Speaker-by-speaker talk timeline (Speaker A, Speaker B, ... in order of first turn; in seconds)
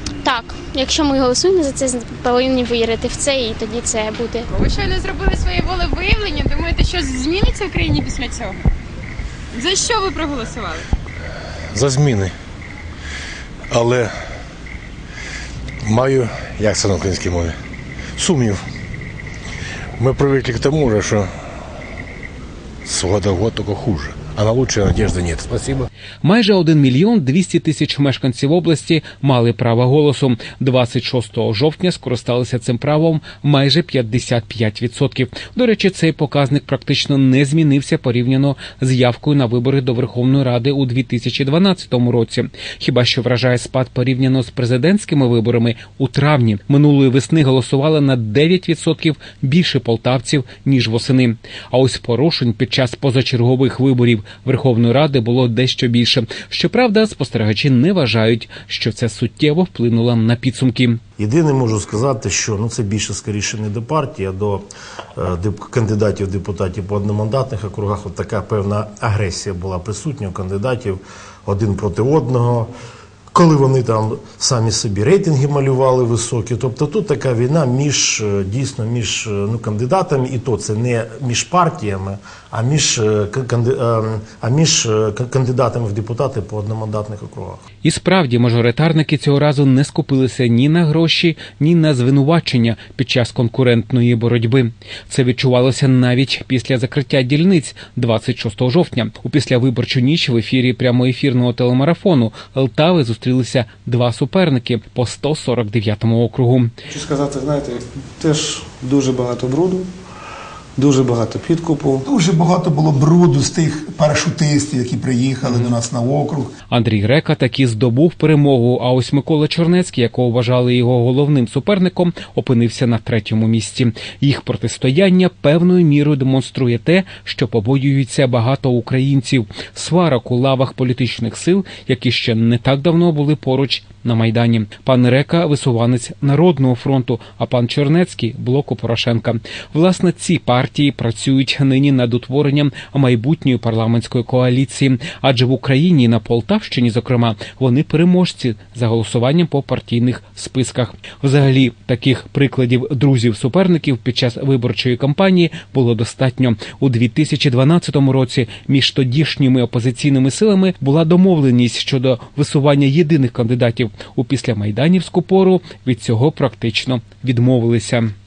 Speaker A: 0.2-4.5
Speaker B: 4.5-8.6, 9.5-10.8
Speaker C: 11.7-12.3, 13.7-14.1, 15.8-17.5, 18.2-18.6, 20.0-21.3, 22.8-25.9
Speaker D: 26.2-61.0, 87.8-106.7, 116.7-168.1
Speaker E: 61.2-72.7, 73.3-87.6
Speaker F: 106.9-109.9, 110.8-112.1
Speaker G: 112.1-116.5